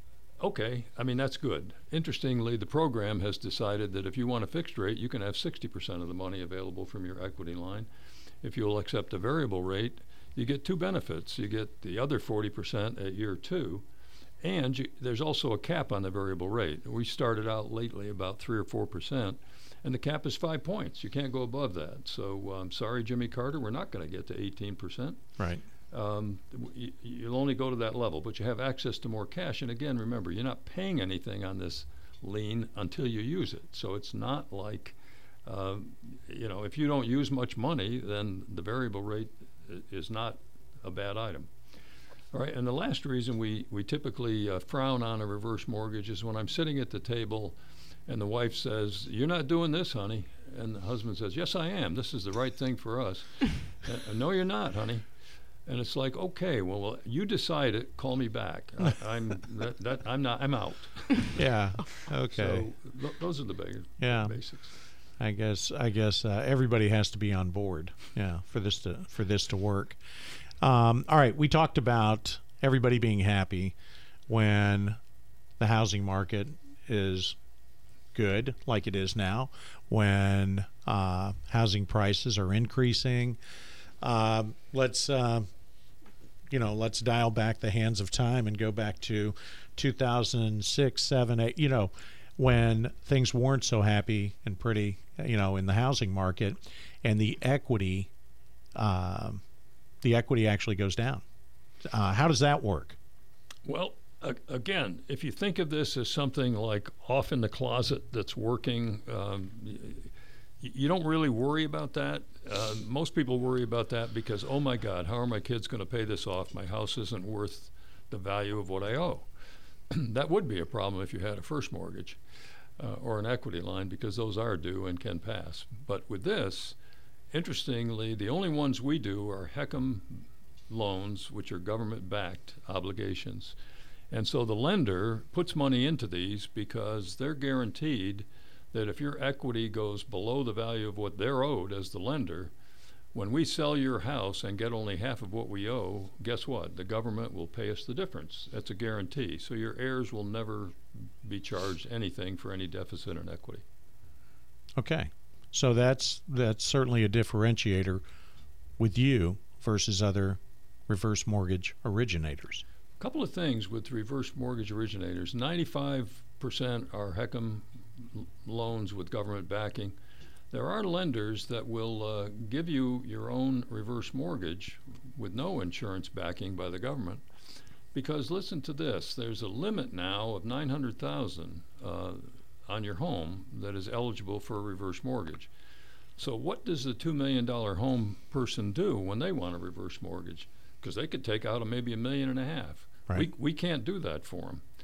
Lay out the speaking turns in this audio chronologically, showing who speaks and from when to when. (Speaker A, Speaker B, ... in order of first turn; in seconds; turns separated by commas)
Speaker A: 0.4-7.9, Speaker A: 8.4-13.8, Speaker A: 14.4-25.2, Speaker B: 25.4-25.6, Speaker A: 25.9-41.5, Speaker A: 42.3-47.6, Speaker A: 48.1-55.1, Speaker A: 55.7-61.4, Speaker B: 61.4-62.7, Speaker A: 62.3-64.7, Speaker B: 64.0-64.4, Speaker B: 65.2-70.0, Speaker B: 70.6-73.8, Speaker B: 74.3-75.0, Speaker B: 75.6-77.4, Speaker B: 78.1-83.4, Speaker B: 84.0-85.5, Speaker B: 86.5-98.1, Speaker B: 98.8-99.4, Speaker B: 100.0-101.2, Speaker B: 101.8-103.0, Speaker A: 103.7-119.3, Speaker A: 119.9-122.2, Speaker A: 122.8-126.8, Speaker A: 127.3-133.6, Speaker A: 134.1-142.5, Speaker A: 143.1-153.6, Speaker B: 154.8-158.0, Speaker B: 158.8-162.6, Speaker A: 163.0-170.0, Speaker A: 170.5-177.2, Speaker A: 177.9-185.5, Speaker A: 186.2-194.6